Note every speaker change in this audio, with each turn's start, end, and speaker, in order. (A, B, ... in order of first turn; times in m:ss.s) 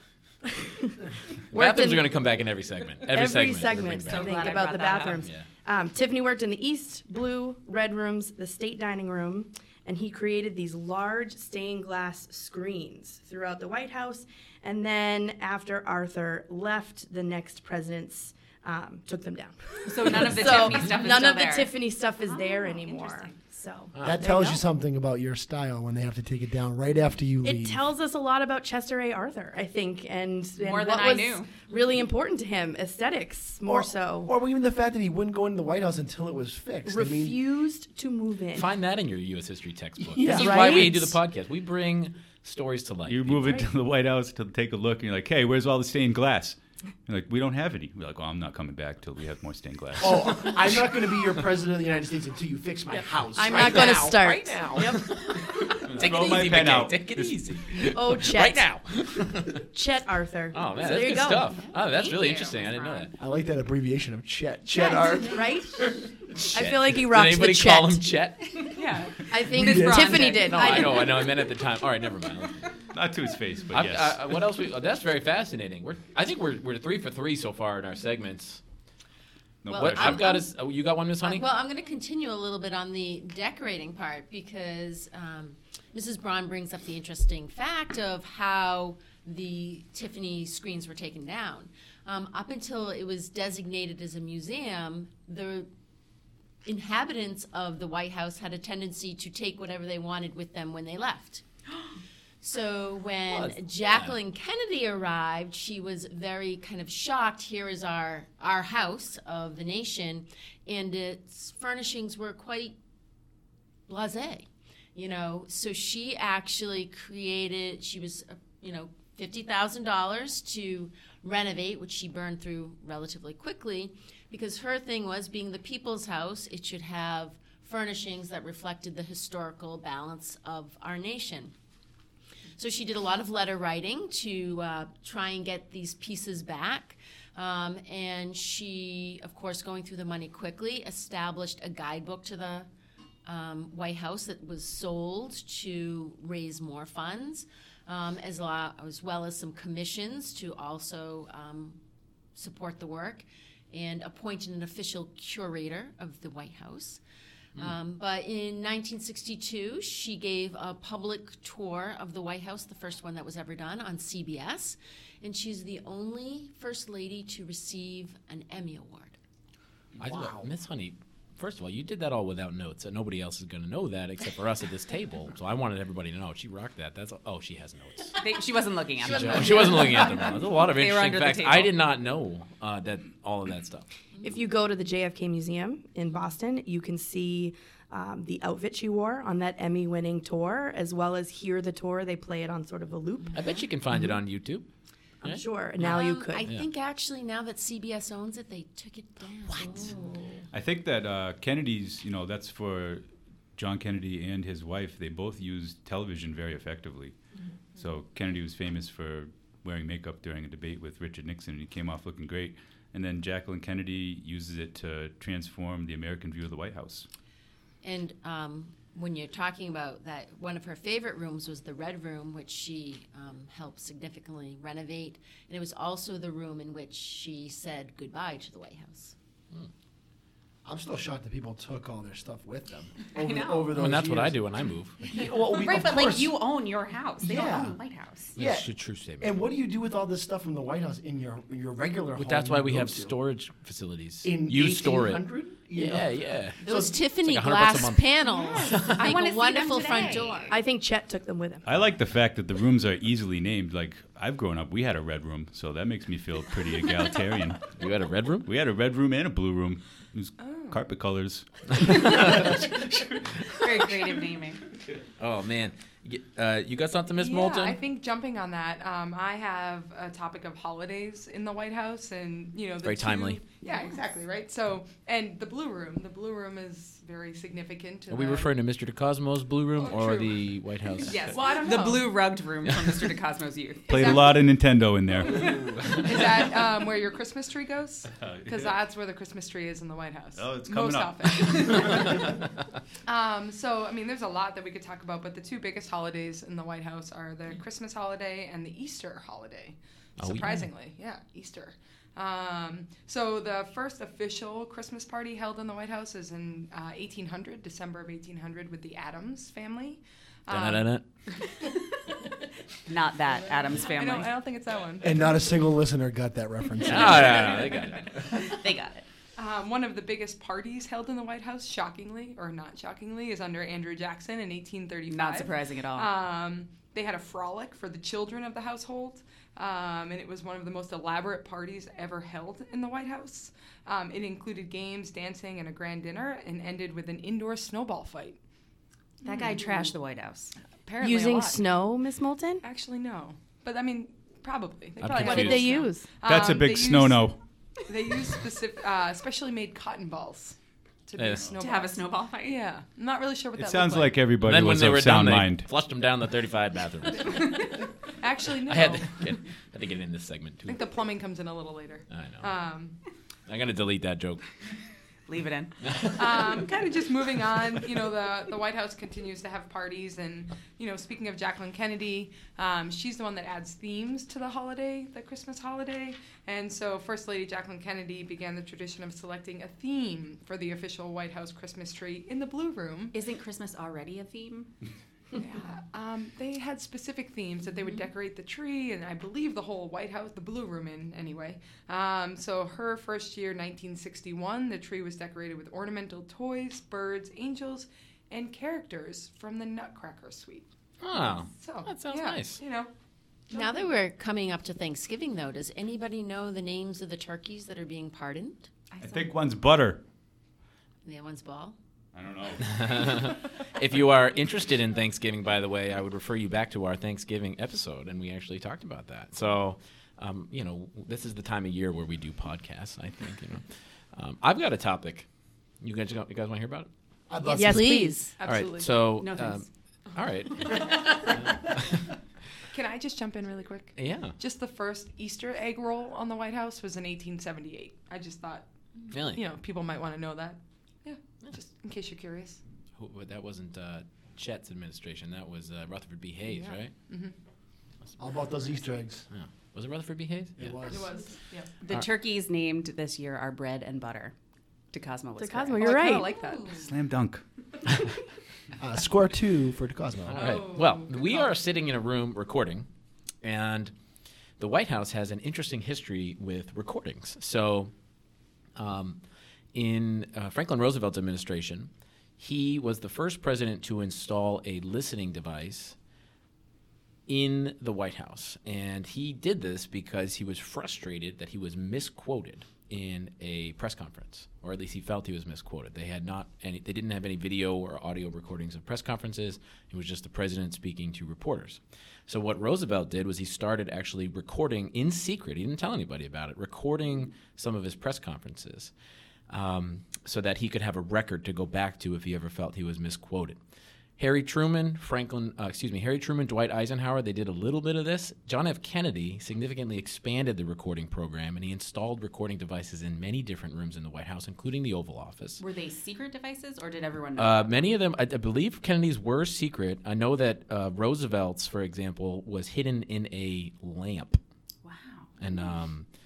0:00.4-0:02.2 A
0:01.5-0:04.7 B
0:03.0-0:24.6 A
0:04.1-0:05.2 C
0:05.2-0:05.5 B
0:19.8-0:23.4 C
0:23.9-0:24.3 B
0:24.0-0:27.9 D
0:27.4-0:34.3 A
0:30.6-0:31.5 C
0:33.7-0:37.4 D
0:36.9-0:38.7 A
0:38.5-0:43.6 B
0:40.0-0:41.0 D
0:40.2-0:41.2 A
0:43.1-0:50.3 E
0:50.0-0:55.0 D
0:53.4-0:55.4 A
0:53.5-0:59.7 B
0:55.9-0:57.4 E
0:57.8-0:58.7 A
0:59.6-1:01.6 A
1:00.5-1:03.1 B
1:01.7-1:03.1 C
1:03.2-1:05.8 D
1:04.7-1:05.9 A
1:06.4-1:08.8 B
1:06.5-1:08.2 A
1:08.7-1:11.0 C
1:09.3-1:11.3 A
1:09.5-1:10.2 D
1:09.8-1:12.7 B
1:09.9-1:10.3 F
1:12.9-1:14.4 E
1:13.7-1:18.6 B
1:19.6-1:20.4 E
1:19.7-1:20.5 G
1:19.7-1:21.4 B
1:21.2-1:35.7 G
1:36.6-1:41.4 G
1:42.4-1:52.8 G
1:43.3-1:44.2 B
1:53.9-2:11.5 G
2:12.6-2:22.7 G
2:23.3-2:31.8 G
2:32.4-2:37.0 G
2:37.6-2:49.2 G
2:50.0-2:58.2 B
2:50.0-2:50.4 D
2:58.2-3:01.7 C
2:59.0-3:03.9 B
3:04.2-3:13.6 A
3:13.3-3:14.6 B
3:15.2-3:16.5 A
3:15.2-3:16.7 B
3:15.8-3:20.0 G
3:19.6-3:20.4 A
3:20.5-3:27.2 E
3:27.8-3:37.1 E
3:37.8-3:49.2 G
3:50.6-3:54.4 D
3:53.2-3:53.7 C
3:53.8-3:55.1 B
3:55.0-3:56.4 D
3:55.4-3:58.4 C
3:57.2-3:57.8 D
3:58.4-3:59.3 B
3:58.4-4:03.1 D
4:02.2-4:06.6 B
4:04.2-4:07.0 D
4:06.6-4:10.5 G
4:07.2-4:09.0 B
4:08.5-4:10.6 C
4:10.5-4:11.7 A
4:11.7-4:17.8 E
4:17.8-4:18.5 B
4:18.4-4:23.4 E
4:20.4-4:20.8 F
4:21.7-4:22.6 B
4:23.5-4:24.6 C
4:25.2-4:27.8 B
4:27.1-4:38.6 F
4:32.8-4:33.4 B
4:33.6-4:34.0 C
4:38.1-4:41.4 B
4:39.7-4:42.2 F
4:41.1-4:44.2 C
4:43.9-4:45.6 E
4:43.9-4:44.5 F
4:45.2-4:52.4 F
4:48.2-4:48.8 E
4:50.4-4:51.7 E
4:53.1-5:11.0 F
5:00.2-5:00.7 B
5:10.5-5:11.1 B
5:12.9-5:14.4 C
5:13.8-5:15.3 F
5:15.0-5:17.6 D
5:16.8-5:18.2 B
5:18.3-5:19.1 C
5:19.4-5:38.4 F
5:25.1-5:26.1 C
5:39.2-5:41.6 C
5:39.2-5:39.8 F
5:41.0-5:42.6 A
5:42.6-5:47.4 F
5:45.0-5:45.8 B
5:45.2-5:46.2 A
5:46.2-5:47.4 E
5:47.9-5:54.3 F
5:51.2-5:51.6 B
5:51.6-5:52.7 C
5:53.6-5:55.7 E
5:54.4-5:57.7 B
5:57.2-5:59.4 F
5:58.7-6:00.8 B
6:00.6-6:03.0 F
6:02.1-6:02.5 B
6:03.5-6:04.4 B
6:05.3-6:05.7 C
6:05.8-6:06.7 B
6:06.0-6:23.2 F
6:23.1-6:24.7 C
6:25.4-6:40.7 F
6:41.0-6:42.6 B
6:41.2-6:42.9 F
6:43.5-6:43.9 F
6:43.5-6:48.7 G
6:49.0-6:50.0 E
6:51.0-6:51.8 G
6:52.1-6:53.3 E
6:52.6-7:05.3 B
7:05.8-7:06.9 B
7:07.3-7:08.0 D
7:07.4-7:08.4 A
7:07.6-7:08.3 G
7:08.4-7:09.1 F
7:08.4-7:12.1 B
7:09.2-7:09.7 C
7:12.7-7:22.6 F
7:14.0-7:14.4 B
7:19.1-7:19.4 B
7:23.0-7:26.9 B
7:26.4-7:27.3 F
7:28.2-7:29.3 D
7:29.3-7:30.8 B
7:30.6-7:31.2 D
7:30.9-7:31.7 F
7:31.8-7:34.4 C
7:34.9-7:36.9 C
7:35.4-7:36.4 A
7:36.8-7:37.4 E
7:38.8-7:40.6 D
7:40.3-7:42.9 B
7:40.3-7:41.6 F
7:43.4-7:43.9 B
7:44.6-7:47.9 B
7:48.8-7:49.2 B
7:49.7-7:56.0 B
7:57.3-8:18.9 B
8:19.5-8:23.6 B
8:24.2-8:35.6 B
8:35.6-8:37.9 C
8:37.4-8:44.4 B
8:44.8-8:45.8 C
8:45.4-8:46.1 B